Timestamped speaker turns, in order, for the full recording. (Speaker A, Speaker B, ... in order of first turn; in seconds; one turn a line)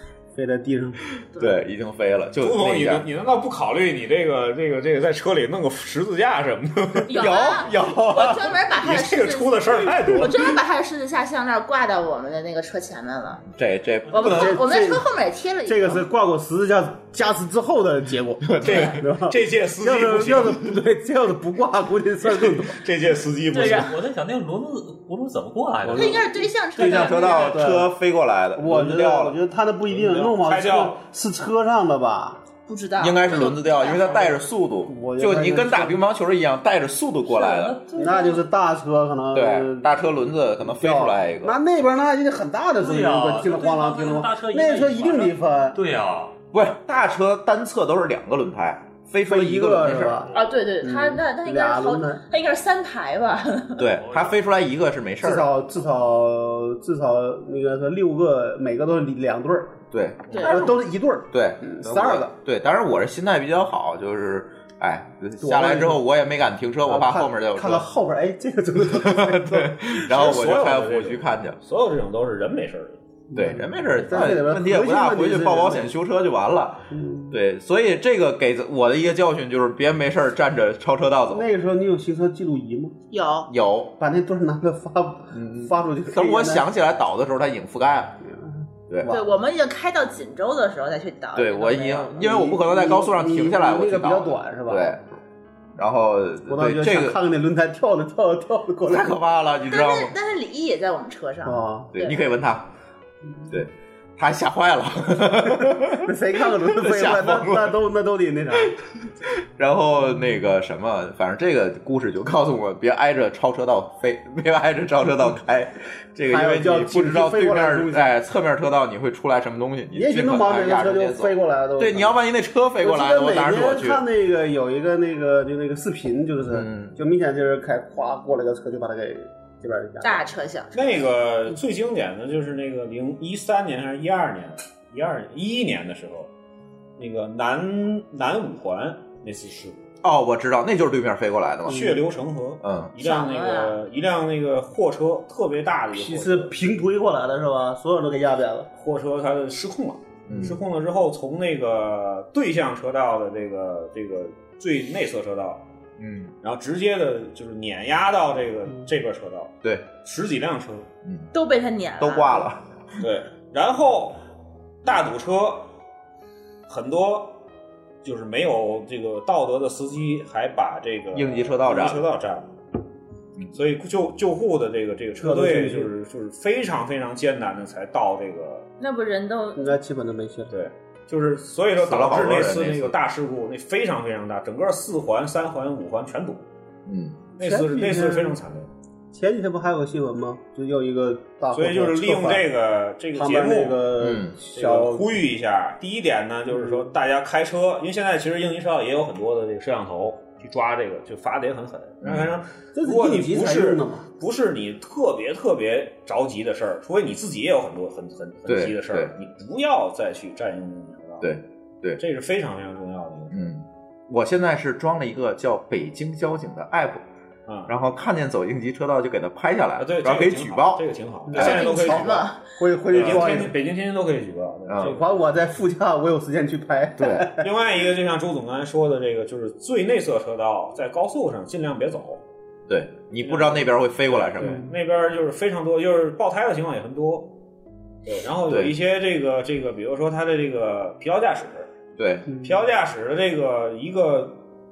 Speaker A: 0.3-1.1
Speaker B: 1.4-3.1
Speaker C: 2.4-7.2
Speaker D: 7.1-13.4
Speaker B: 7.1-8.5
Speaker C: 8.7-10.6
Speaker B: 13.5-14.6
Speaker D: 14.1-16.0
Speaker A: 14.2-15.1
Speaker A: 15.7-22.8
Speaker B: 18.5-19.0
Speaker C: 18.6-20.6
Speaker C: 22.4-23.9
Speaker D: 23.5-23.9
Speaker E: 23.5-26.2
Speaker A: 25.8-27.9
Speaker D: 26.0-27.6
Speaker B: 26.8-29.4
Speaker A: 28.6-32.4
Speaker C: 29.9-31.0
Speaker D: 32.7-34.3
Speaker B: 33.0-37.8
Speaker A: 34.9-36.0
Speaker D: 37.3-38.4
Speaker A: 38.0-45.8
Speaker B: 39.3-41.6
Speaker E: 42.8-46.4
Speaker B: 46.5-50.3
Speaker A: 49.3-52.2
Speaker E: 50.0-50.5
Speaker D: 50.3-53.9
Speaker B: 53.8-55.5
Speaker E: 54.0-54.5
Speaker A: 55.2-59.8
Speaker B: 59.9-60.7
Speaker D: 60.3-60.7
Speaker A: 60.3-62.3
Speaker B: 61.3-67.9
Speaker A: 65.4-66.0
Speaker A: 66.9-70.0
Speaker B: 68.9-71.6
Speaker C: 70.1-73.0
Speaker A: 73.3-75.9
Speaker B: 73.3-81.5
Speaker A: 76.9-77.4
Speaker A: 81.3-82.9
Speaker D: 83.1-83.5
Speaker B: 83.5-84.0
Speaker A: 84.0-86.7
Speaker B: 85.3-88.2
Speaker A: 88.2-89.3
Speaker D: 89.1-92.2
Speaker B: 91.3-95.0
Speaker A: 92.2-95.0
Speaker B: 95.8-97.2
Speaker A: 96.5-99.2
Speaker B: 98.9-100.1
Speaker D: 99.7-102.2
Speaker A: 101.5-101.9
Speaker B: 101.9-102.7
Speaker B: 103.5-107.8
Speaker A: 105.5-108.8
Speaker B: 109.3-124.0
Speaker A: 116.3-118.1
Speaker A: 119.9-122.1
Speaker A: 122.8-130.3
Speaker B: 126.5-127.0
Speaker D: 130.0-131.0
Speaker C: 130.7-136.3
Speaker C: 137.0-139.8
Speaker B: 140.0-141.9
Speaker C: 141.7-146.5
Speaker A: 141.7-142.1
Speaker B: 142.6-142.9
Speaker D: 143.0-143.8
Speaker A: 145.9-148.7
Speaker C: 148.8-155.6
Speaker B: 150.3-150.6
Speaker B: 156.0-156.3
Speaker C: 156.4-160.9
Speaker B: 159.6-159.9
Speaker D: 161.3-162.5
Speaker B: 162.0-162.6
Speaker C: 163.0-164.2
Speaker C: 164.8-165.7
Speaker C: 166.7-167.4
Speaker C: 168.0-172.5
Speaker B: 171.1-172.0
Speaker C: 173.5-178.7
Speaker A: 175.2-175.9
Speaker D: 178.8-179.7
Speaker A: 179.6-180.5
Speaker C: 180.5-186.5
Speaker B: 181.8-183.0
Speaker B: 186.9-187.2
Speaker C: 187.4-188.7
Speaker A: 187.4-188.4
Speaker A: 189.1-192.5
Speaker C: 191.5-193.9
Speaker A: 193.1-195.2
Speaker B: 194.0-194.4
Speaker C: 194.5-211.3
Speaker A: 196.5-196.9
Speaker B: 202.0-202.3
Speaker A: 202.8-204.1
Speaker B: 208.5-209.1
Speaker B: 211.2-212.0
Speaker C: 212.0-213.4
Speaker B: 213.3-217.1
Speaker C: 217.5-217.7
Speaker B: 217.7-221.6
Speaker C: 219.8-222.3
Speaker A: 221.3-223.6
Speaker D: 221.4-222.4
Speaker C: 222.9-225.3
Speaker B: 222.9-223.2
Speaker B: 224.7-225.0
Speaker A: 224.8-227.5
Speaker B: 227.0-227.3
Speaker C: 227.4-232.2
Speaker B: 232.7-234.6
Speaker C: 233.2-237.3
Speaker A: 234.4-234.7
Speaker C: 238.1-241.7
Speaker B: 238.5-238.8
Speaker B: 242.0-242.3
Speaker C: 242.4-244.4